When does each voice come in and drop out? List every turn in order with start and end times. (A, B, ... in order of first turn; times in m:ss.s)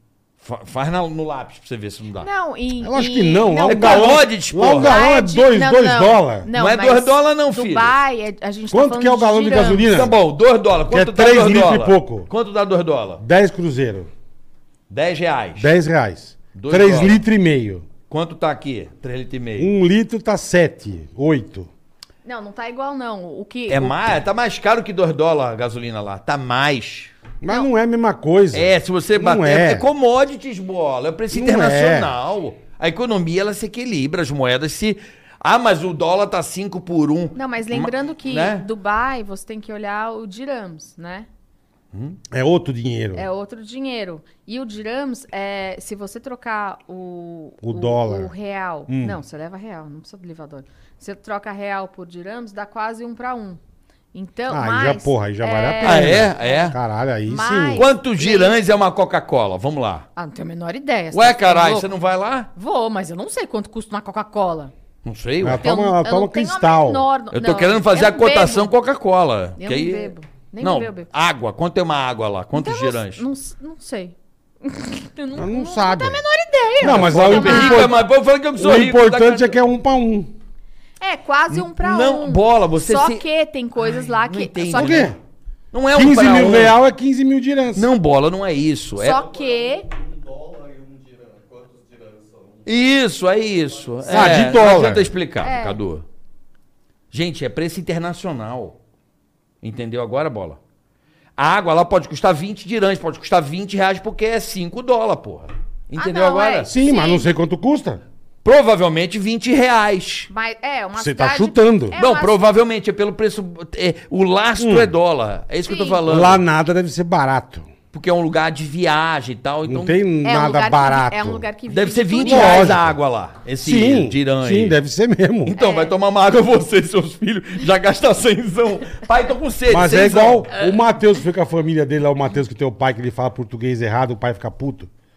0:00.4-0:02.3 A
0:02.2-0:09.9 B
0:02.8-0:06.5 C
0:03.6-0:05.0 A
0:06.5-0:08.0 A
0:08.7-0:10.2 C
0:09.7-0:13.2 A
0:10.9-0:12.3 C
0:13.2-0:14.1 C
0:14.9-0:15.7 A
0:15.6-0:17.8 C
0:16.5-0:17.2 A
0:18.1-0:19.7 A
0:19.6-0:21.7 C
0:22.2-0:24.0 B
0:23.7-0:27.1 A
0:27.4-0:29.8 C
0:28.5-0:38.7 A
0:31.3-0:32.1 C
0:37.3-0:41.3 B
0:41.9-0:42.2 A
0:42.3-0:43.3 C
0:43.1-0:53.6 B
0:47.6-0:48.3 C
0:48.9-0:49.2 C
0:54.1-0:58.6 B
0:54.5-0:57.8 C
0:55.8-0:56.8 A
0:57.7-1:00.1 A
1:00.2-1:01.9 B
1:01.1-1:02.5 A
1:02.5-1:04.7 B
1:05.0-1:05.7 A
1:05.4-1:07.1 C
1:05.6-1:08.7 B
1:07.3-1:13.2 A
1:09.6-1:11.1 B
1:12.5-1:17.9 B
1:15.3-1:16.2 C
1:16.8-1:18.0 C
1:16.8-1:19.6 A
1:18.6-1:20.3 C
1:21.0-1:25.1 B
1:21.5-1:23.2 A
1:23.8-1:25.2 A
1:24.7-1:25.2 C
1:25.7-1:26.8 A
1:25.9-1:27.9 C
1:27.7-1:29.3 A
1:29.0-1:29.9 B
1:32.6-1:36.0 A
1:34.0-1:35.1 C
1:35.4-1:35.8 B
1:37.1-1:38.8 A
1:39.6-1:40.6 A
1:41.4-1:46.7 A
1:46.0-1:47.3 B
1:46.7-1:48.0 C
1:48.4-1:50.3 A
1:50.3-1:52.4 B
1:51.0-1:52.0 C
1:51.9-1:56.4 A
1:54.6-1:54.9 C
1:55.6-1:56.0 B
1:56.0-1:57.7 C
1:57.9-2:00.0 A
1:59.7-2:01.5 C
2:00.2-2:02.8 B
2:01.7-2:04.8 A
2:02.2-2:03.0 C
2:03.6-2:05.6 C
2:05.4-2:10.5 A
2:05.6-2:05.9 B
2:09.7-2:14.9 C